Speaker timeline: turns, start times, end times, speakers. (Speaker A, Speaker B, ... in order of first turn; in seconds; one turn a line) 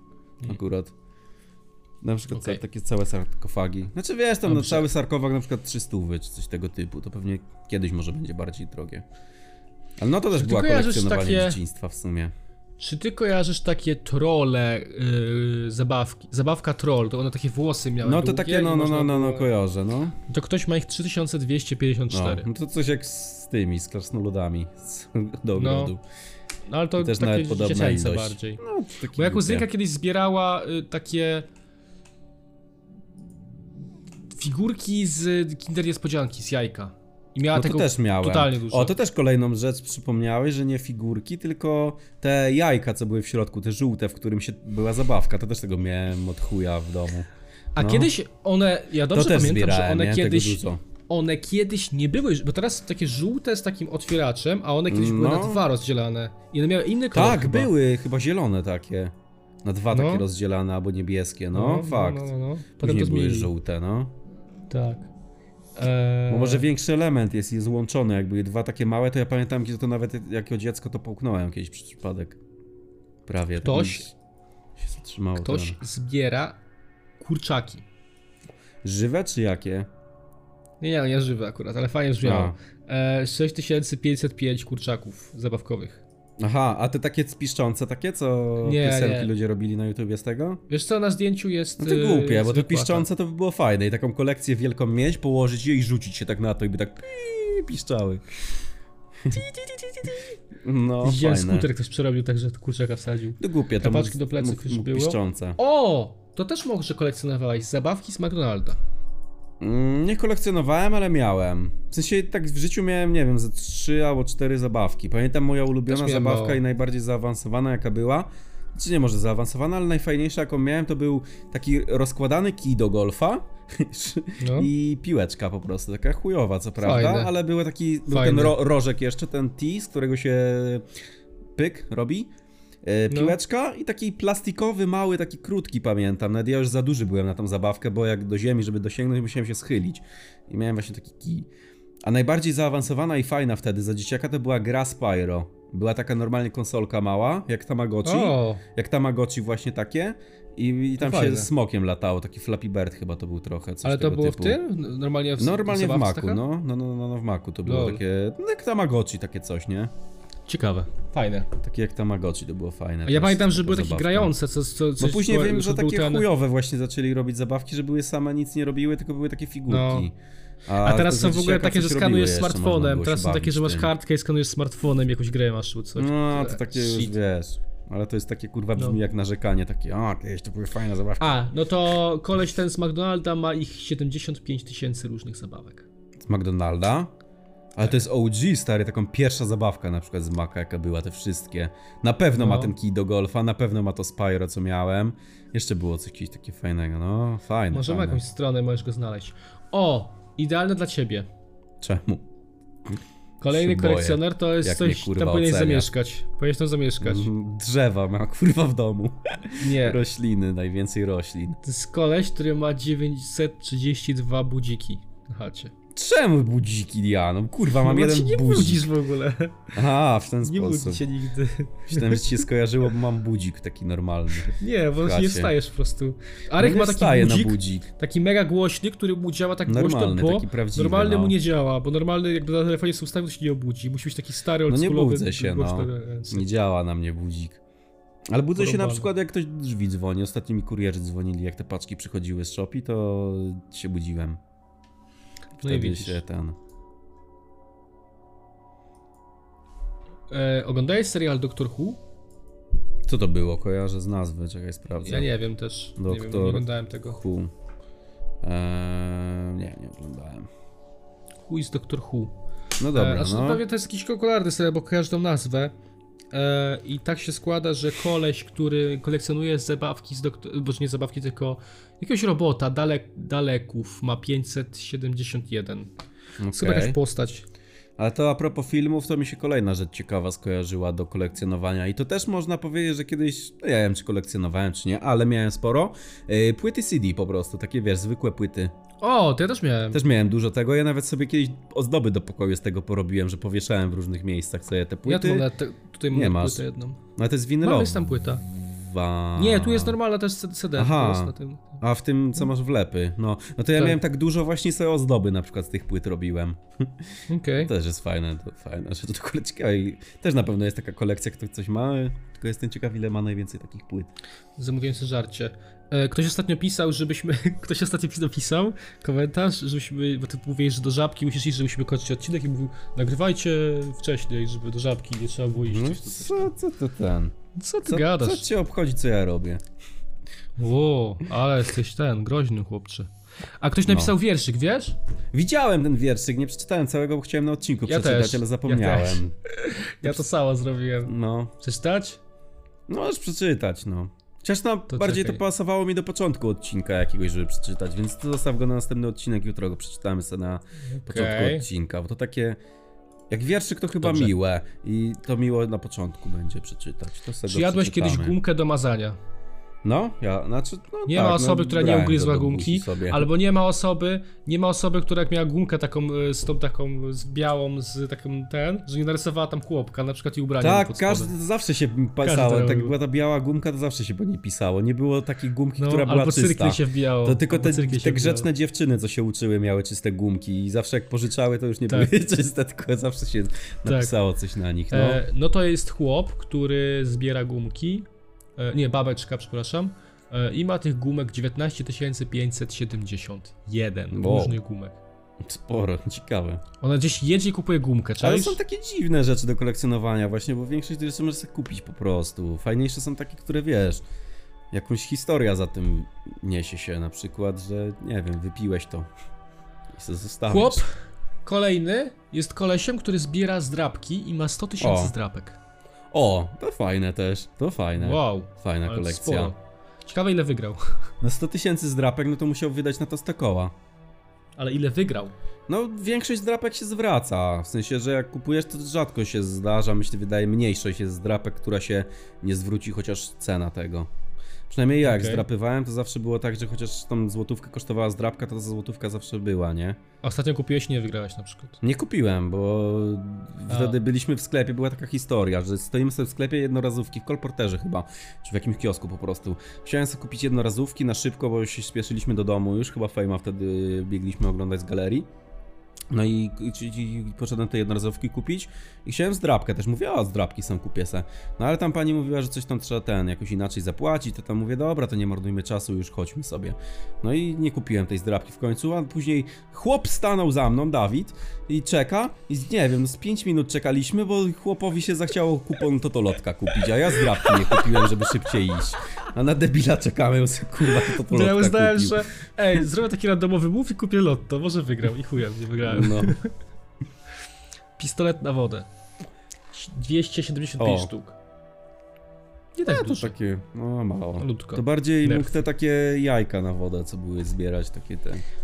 Speaker A: 0.5-0.9
Speaker A: 2.0-9.1
Speaker B: 2.3-2.6
Speaker B: 4.5-4.9
Speaker A: 10.0-12.3
Speaker B: 10.3-11.6
Speaker B: 12.8-19.5
Speaker A: 18.0-20.1
Speaker B: 20.3-22.5
Speaker A: 22.1-26.0
Speaker B: 25.6-26.0
Speaker B: 26.7-28.6
Speaker A: 27.0-29.7
Speaker B: 29.2-31.5
Speaker B: 34.4-38.9
Speaker A: 37.5-48.1
Speaker B: 47.8-57.7
Speaker A: 49.1-50.8
Speaker A: 54.9-55.6
Speaker A: 57.1-59.1
Speaker A: 59.6-64.1
Speaker B: 59.9-60.3
Speaker B: 61.5-63.5
Speaker B: 64.7-65.1
Speaker B: 65.8-66.7
Speaker A: 66.3-72.4
Speaker A: 73.3-74.1
Speaker B: 73.6-74.1
Speaker A: 74.8-75.8
Speaker B: 75.4-76.6
Speaker B: 77.2-77.8
Speaker A: 78.8-79.9
Speaker B: 80.8-86.0
Speaker A: 82.2-82.5
Speaker A: 86.4-90.6
Speaker B: 88.6-89.3
Speaker B: 90.7-93.1
Speaker A: 91.8-98.2
Speaker B: 99.3-100.3
Speaker A: 100.6-101.7
Speaker B: 101.0-108.8
Speaker A: 103.4-105.6
Speaker A: 109.6-130.8
Speaker B: 115.9-116.6
Speaker B: 124.4-124.7
Speaker B: 126.8-127.3
Speaker B: 128.1-128.6
Speaker A: 131.6-132.3
Speaker A: 132.8-141.5
Speaker B: 133.1-133.4
Speaker A: 142.1-154.6
Speaker B: 148.1-148.6
Speaker B: 151.0-151.5
Speaker B: 153.8-156.4
Speaker A: 155.4-159.9
Speaker B: 157.7-158.0
Speaker B: 160.5-161.5
Speaker A: 161.6-164.3
Speaker B: 163.1-166.3
Speaker A: 165.0-173.9
Speaker B: 169.7-170.1
Speaker B: 170.8-177.2
Speaker A: 176.0-181.4
Speaker B: 181.2-185.9
Speaker A: 186.2-187.1
Speaker A: 187.8-198.2
Speaker B: 192.4-192.8
Speaker B: 197.7-201.3
Speaker A: 201.8-202.2
Speaker B: 203.4-207.3
Speaker A: 203.5-205.9
Speaker A: 207.0-211.6
Speaker B: 209.6-210.0
Speaker B: 211.6-215.7
Speaker A: 215.9-218.9
Speaker B: 217.7-219.7
Speaker A: 219.7-221.1
Speaker B: 220.4-222.4
Speaker A: 221.9-225.5
Speaker B: 224.5-236.5
Speaker A: 226.6-227.9
Speaker A: 229.7-231.4
Speaker A: 234.7-237.6
Speaker A: 238.3-244.4
Speaker B: 238.6-239.1
Speaker A: 245.6-246.6
Speaker B: 245.6-246.2
Speaker B: 250.3-252.0
Speaker A: 253.1-255.3
Speaker B: 255.0-257.2
Speaker A: 256.0-257.5
Speaker A: 258.4-260.5
Speaker B: 261.4-262.3
Speaker A: 262.8-263.6
Speaker B: 262.9-265.7
Speaker B: 266.3-275.9
Speaker A: 276.4-277.0
Speaker B: 276.5-277.4
Speaker A: 278.0-288.7
Speaker B: 289.0-290.0
Speaker A: 289.9-295.5
Speaker B: 295.1-297.0
Speaker A: 296.1-296.6
Speaker A: 297.2-300.0
Speaker B: 297.6-298.4
Speaker B: 299.4-301.8
Speaker A: 300.8-314.1
Speaker B: 307.3-307.7
Speaker B: 314.6-326.5
Speaker A: 325.7-329.6
Speaker B: 327.6-328.5
Speaker B: 330.6-333.1
Speaker B: 333.6-335.0
Speaker A: 333.9-334.1
Speaker A: 335.3-339.3
Speaker B: 337.9-342.2
Speaker A: 341.1-341.5
Speaker A: 342.9-352.6
Speaker B: 344.9-345.4
Speaker B: 350.9-351.7
Speaker A: 353.3-358.4
Speaker B: 354.0-354.3
Speaker B: 357.5-359.2
Speaker A: 359.8-363.3
Speaker B: 361.1-371.3
Speaker A: 370.6-385.2
Speaker B: 372.2-372.9
Speaker B: 375.8-378.5
Speaker B: 383.9-384.1
Speaker B: 384.9-395.0
Speaker A: 394.1-394.6
Speaker A: 395.4-396.6
Speaker B: 396.8-398.6
Speaker A: 398.2-404.0
Speaker A: 404.7-409.1
Speaker A: 409.9-410.8
Speaker B: 410.5-415.6
Speaker A: 414.8-415.1
Speaker A: 416.1-419.5
Speaker B: 418.0-420.9
Speaker A: 421.2-423.7
Speaker B: 424.6-425.3
Speaker A: 425.7-434.1
Speaker A: 434.7-440.0
Speaker B: 435.0-435.4
Speaker B: 440.2-441.8
Speaker A: 441.8-455.3
Speaker B: 443.7-444.0
Speaker A: 456.1-482.2
Speaker B: 477.3-478.0
Speaker B: 481.0-486.5
Speaker A: 485.8-486.4
Speaker B: 488.0-488.9
Speaker B: 489.7-491.4
Speaker A: 490.8-491.1
Speaker B: 492.8-493.4
Speaker A: 492.8-498.4
Speaker B: 494.4-495.6